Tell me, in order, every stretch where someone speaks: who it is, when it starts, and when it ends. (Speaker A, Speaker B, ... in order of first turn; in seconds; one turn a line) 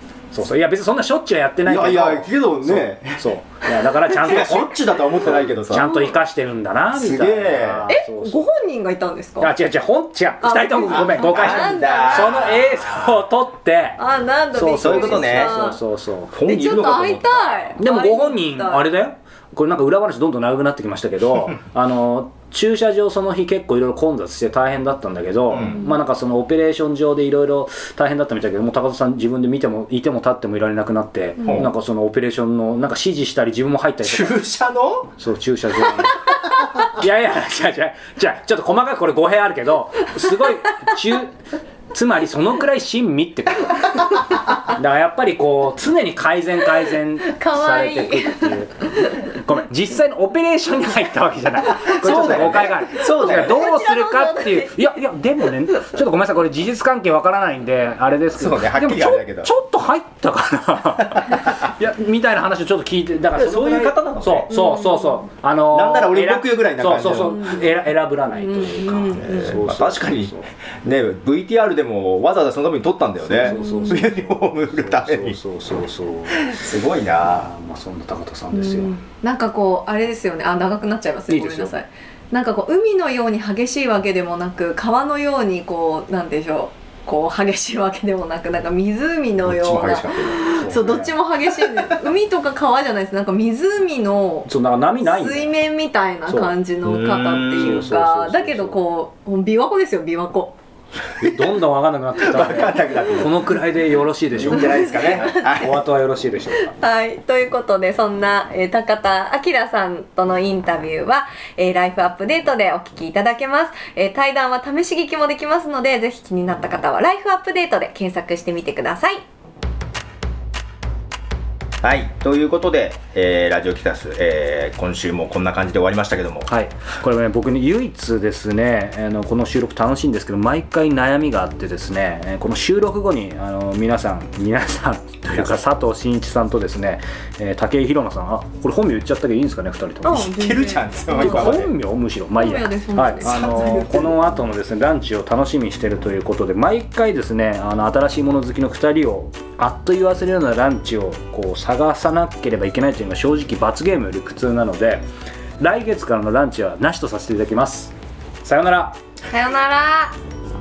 Speaker A: 0.3-8.5
Speaker B: 1.6-3.2
Speaker B: 3.9-5.9
Speaker C: 5.8-6.1
Speaker B: 6.9-7.9
Speaker C: 7.9-9.5
Speaker A: 9.4-14.0
Speaker C: 10.4-12.6
Speaker B: 10.9-12.7
Speaker C: 14.0-15.8
Speaker A: 14.5-16.3
Speaker B: 14.7-15.6
Speaker B: 16.3-17.8
Speaker C: 16.4-18.9
Speaker A: 17.8-34.4
Speaker B: 25.5-25.8
Speaker B: 31.4-31.7
Speaker C: 31.4-31.7
Speaker B: 34.0-35.1
Speaker A: 35.2-41.4
Speaker A: 41.9-70.5
Speaker C: 47.2-49.2
Speaker B: 51.9-53.7
Speaker C: 53.0-54.9
Speaker B: 58.4-59.5
Speaker B: 63.3-64.5
Speaker C: 64.5-65.2
Speaker B: 65.7-67.6
Speaker C: 67.2-67.8
Speaker C: 68.4-69.6
Speaker B: 69.2-75.4
Speaker A: 73.2-76.5
Speaker C: 73.4-74.1
Speaker B: 76.3-77.5
Speaker A: 77.3-79.0
Speaker C: 78.5-94.5
Speaker A: 81.3-81.7
Speaker B: 89.4-91.0
Speaker A: 90.5-91.1
Speaker A: 94.5-95.5
Speaker C: 95.0-100.6
Speaker A: 96.3-96.6
Speaker B: 96.8-97.9
Speaker A: 97.3-98.8
Speaker B: 101.2-101.5
Speaker A: 101.2-106.7
Speaker B: 102.2-103.5
Speaker B: 104.3-105.8
Speaker C: 104.5-105.6
Speaker C: 106.7-119.2
Speaker B: 121.8-126.5
Speaker A: 126.5-140.3
Speaker C: 140.0-141.6
Speaker B: 140.1-141.7
Speaker A: 141.1-155.1
Speaker C: 142.3-144.0
Speaker B: 143.2-144.2
Speaker A: 155.6-159.0
Speaker C: 159.3-160.2